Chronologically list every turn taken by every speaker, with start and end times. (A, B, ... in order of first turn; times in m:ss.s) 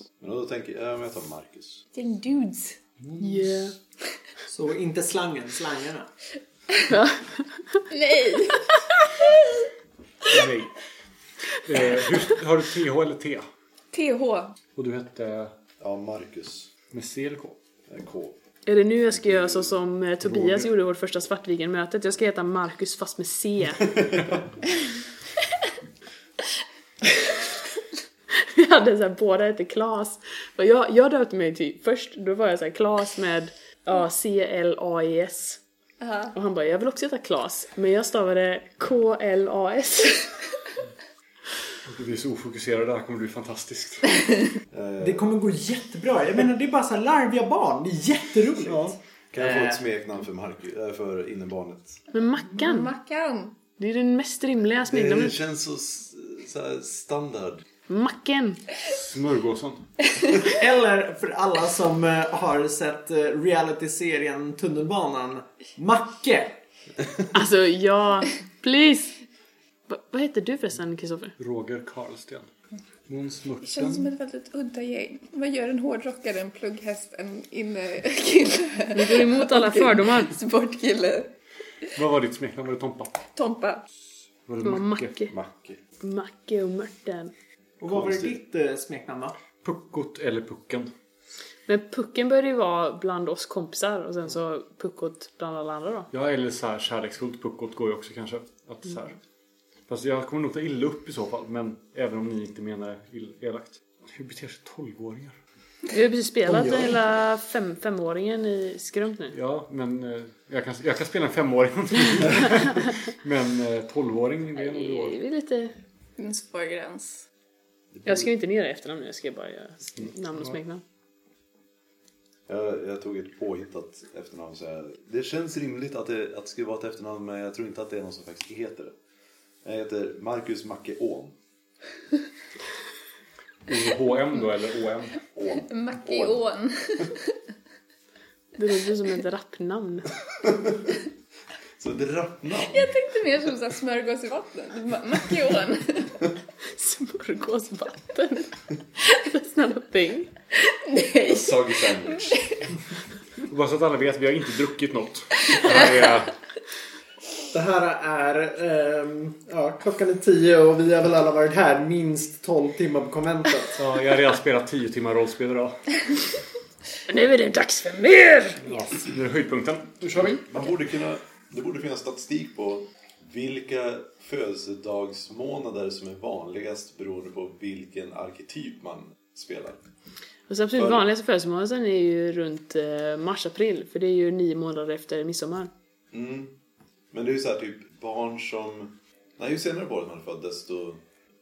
0:00.2-0:01.8 A
0:01.9-0:02.8 B
0:03.2-0:03.7 C
0:04.4-0:06.1 D
0:06.9-0:07.8 C
0:07.9-0:09.7 B
0:10.3-0:10.7 E
0:11.5-0:13.4 E
0:13.9-0:14.6 B
0:14.8-0:15.5 E
0:15.8-0:16.7 A
0:16.9-0:17.6 E
0:17.9-0:18.3 A
0:18.6-0:23.9 C
0:19.0-0:19.7 A
0:20.2-0:20.7 E
0:28.3-0:35.6 C
0:36.0-0:36.3 B
0:36.3-0:40.4 C
0:41.8-0:44.1 E
0:44.7-0:45.3 A
0:45.0-0:49.8 D
0:48.7-0:52.0 A
0:52.1-0:52.9 C
0:52.4-0:53.6 B
0:53.8-0:55.4 C
0:54.8-0:57.6 A
0:57.9-0:58.6 C
0:58.8-1:00.0 E
1:00.4-1:06.6 D
1:07.3-1:09.2 C
1:09.9-1:11.3 C
1:11.4-1:12.5 E
1:13.1-1:14.1 E
1:13.6-1:21.3 B
1:18.9-1:20.3 C
1:21.9-1:23.2 E
1:23.3-1:23.8 B
1:24.4-1:25.3 E
1:24.6-1:25.3 C
1:25.3-1:25.8 A
1:26.0-1:27.3 C
1:27.8-1:29.4 D
1:27.9-1:28.3 A
1:29.6-1:30.9 E
1:31.7-1:36.1 C
1:36.1-1:39.2 E
1:39.9-1:45.4 E
1:45.9-1:49.3 C
1:46.5-1:46.9 D
1:49.3-1:55.2 E
1:54.6-1:55.7 C
1:56.2-1:57.2 B
1:58.0-2:00.8 C
2:02.5-2:08.9 A
2:09.6-2:11.4 A
2:13.7-2:15.1 E
2:15.3-2:16.4 A
2:15.6-2:17.3 B
2:18.6-2:20.1 C
2:20.4-2:20.7 A
2:21.8-2:22.9 A
2:22.7-2:26.2 B
2:26.7-2:28.5 C
2:29.0-2:30.3 C
2:30.6-2:32.6 B
2:31.2-2:32.5 A
2:33.4-2:36.4 E
2:37.5-2:43.8 D
2:43.7-2:46.0 E
2:47.1-2:48.9 C
2:48.6-2:50.5 E
2:50.3-2:59.8 A
3:00.5-3:05.7 C
3:00.8-3:01.0 A
3:06.1-3:06.5 A
3:07.1-3:11.0 A